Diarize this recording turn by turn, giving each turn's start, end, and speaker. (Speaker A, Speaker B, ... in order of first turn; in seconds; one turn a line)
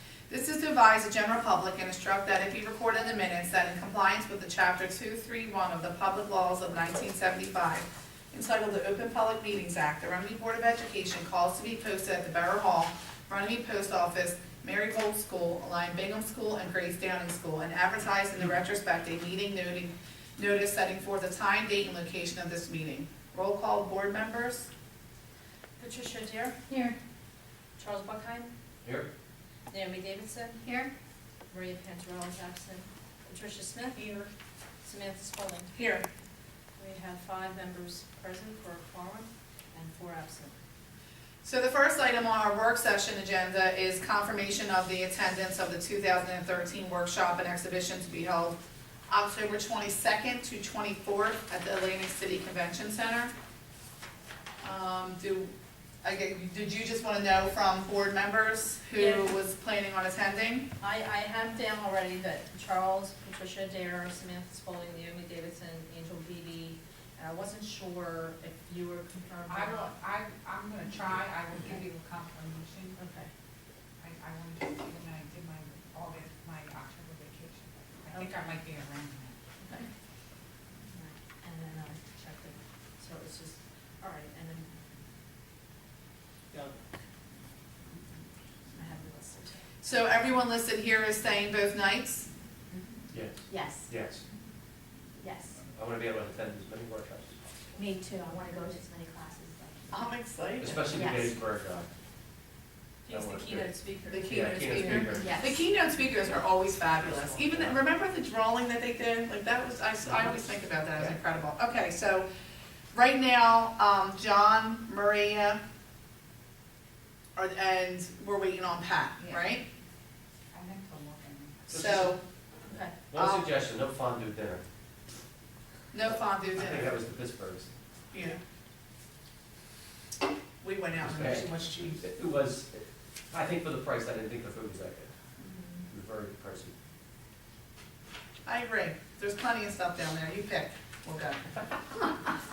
Speaker A: 0.3-24.7
Speaker B: 25.8-26.6
Speaker C: 26.7-26.9
Speaker B: 27.8-28.5
Speaker D: 28.8-29.1
Speaker B: 29.7-30.6
Speaker C: 30.6-30.9
Speaker B: 31.5-34.0
Speaker A: 33.9-34.3
Speaker B: 34.8-35.7
Speaker A: 35.7-36.0
Speaker B: 36.8-40.5
Speaker A: 41.4-53.3
Speaker A: 54.6-60.7
Speaker B: 58.9-59.3
Speaker B: 60.8-69.9
Speaker E: 69.5-73.0
Speaker B: 73.0-73.3
Speaker E: 74.0-79.4
Speaker B: 78.1-78.5
Speaker B: 79.6-79.9
Speaker B: 80.9-84.7
Speaker B: 86.5-86.8
Speaker B: 88.7-89.5
Speaker A: 89.8-92.3
Speaker D: 93.1-94.2
Speaker C: 93.5-93.9
Speaker C: 95.2-95.6
Speaker D: 95.7-97.4
Speaker C: 97.8-99.9
Speaker A: 99.9-101.0
Speaker D: 100.6-101.9
Speaker C: 100.9-101.3
Speaker B: 103.0-105.3
Speaker D: 103.1-103.7
Speaker A: 104.1-112.2
Speaker D: 104.2-105.4
Speaker C: 105.2-105.6
Speaker D: 107.1-107.8
Speaker A: 112.9-115.6
Speaker A: 117.3-119.6
Speaker E: 120.5-122.1
Speaker A: 121.7-122.2
Speaker D: 121.7-122.1
Speaker B: 122.7-122.9
Speaker D: 123.1-124.6
Speaker A: 123.1-123.5
Speaker A: 125.9-127.0
Speaker D: 126.5-127.7
Speaker A: 128.1-128.4
Speaker A: 130.6-132.0
Speaker D: 131.0-135.1
Speaker D: 135.9-136.7
Speaker A: 138.4-141.4